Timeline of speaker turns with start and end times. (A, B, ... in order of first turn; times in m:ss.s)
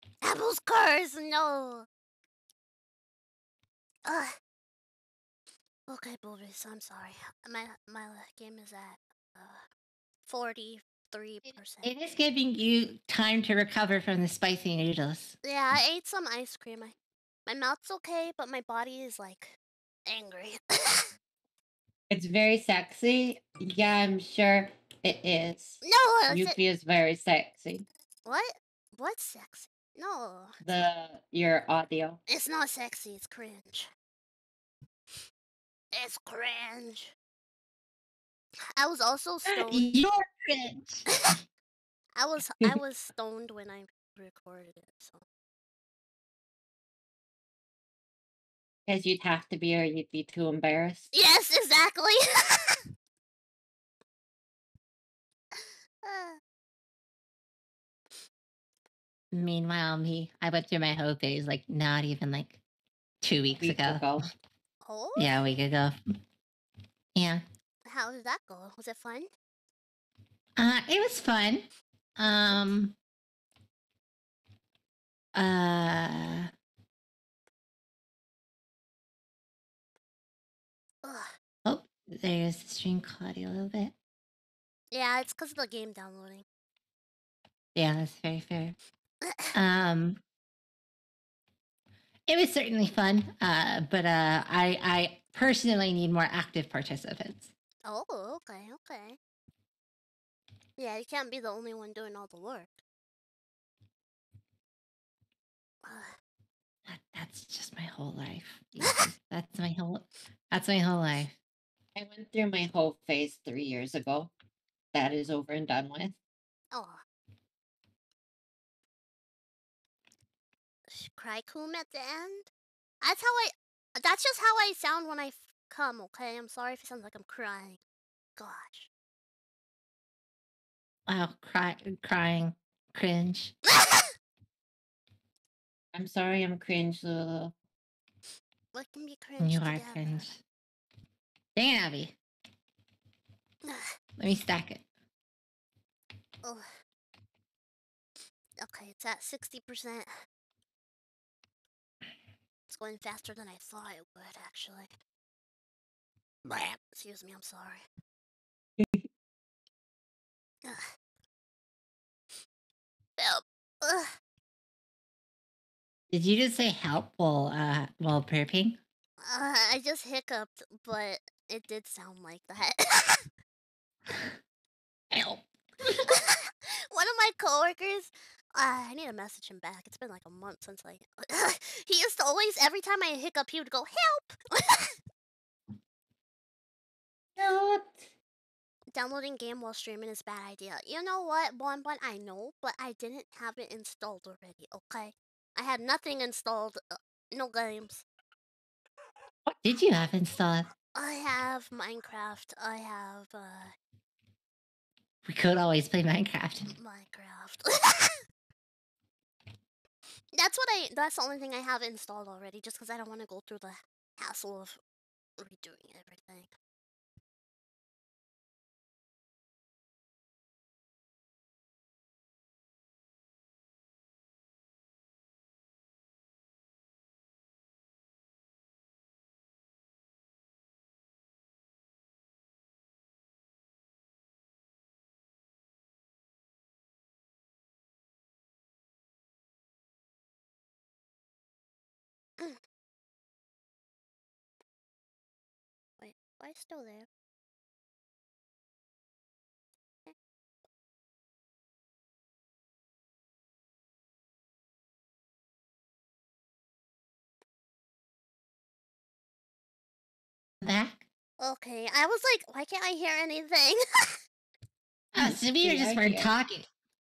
0:00.2-0:01.9 A
0:04.0-0:04.4 A
0:05.9-0:09.6 A
0:10.3-0:11.9 A
0:11.8-0:15.4 B
0:15.4-0:17.0 A
0:17.5-0:21.1 A
0:22.1-0:27.9 C
0:25.8-0:26.6 A
0:28.3-0:30.6 A
0:30.6-0:32.2 C
0:32.3-0:33.9 A
0:35.9-0:37.1 A
0:38.8-0:39.9 A
0:39.5-0:41.0 C
0:42.2-0:45.2 A
0:48.9-0:51.1 C
0:51.1-0:52.9 A
0:55.5-0:56.4 A
0:59.3-1:02.6 B
1:03.2-1:04.2 B
1:03.5-1:04.3 C
1:04.8-1:05.4 A
1:05.2-1:06.0 B
1:07.2-1:07.4 B
1:07.9-1:09.3 A
1:10.6-1:13.0 B
1:15.4-1:16.5 B
1:21.0-1:21.4 A
1:21.6-1:23.9 B
1:24.9-1:26.4 A
1:27.8-1:28.8 B
1:29.2-1:29.5 A
1:29.5-1:30.2 B
1:32.3-1:37.5 B
1:37.9-1:39.2 A
1:40.8-1:42.8 A
1:45.8-1:46.2 A
1:46.9-1:51.4 B
1:52.0-1:54.3 C
1:54.9-1:56.2 C
1:56.7-1:57.0 A
2:00.9-2:02.5 A
2:03.0-2:07.8 A
2:08.4-2:08.9 A
2:11.1-2:13.6 B
2:13.6-2:14.1 A
2:15.9-2:17.5 C
2:18.7-2:20.3 A
2:19.4-2:20.4 B
2:21.6-2:22.2 B
2:23.6-2:24.0 A
2:24.2-2:24.8 B
2:28.6-2:30.1 A
2:32.7-2:34.9 A
2:36.5-2:37.8 A
2:38.8-2:39.0 C
2:40.6-2:41.0 A
2:43.2-2:44.2 A
2:46.1-2:48.8 B
2:49.2-2:53.3 A
2:55.1-2:55.4 B
2:55.9-3:05.0 A
3:07.4-3:08.0 C
3:08.9-3:18.0 A
3:19.5-3:20.7 B
3:21.0-3:23.8 A
3:25.3-3:26.7 B
3:26.8-3:28.2 A
3:30.3-3:34.8 A
3:35.4-3:36.5 A
4:06.0-4:07.1 A
4:20.6-4:21.0 B
4:21.4-4:24.2 A
4:25.1-4:26.7 B
4:25.2-4:26.3 C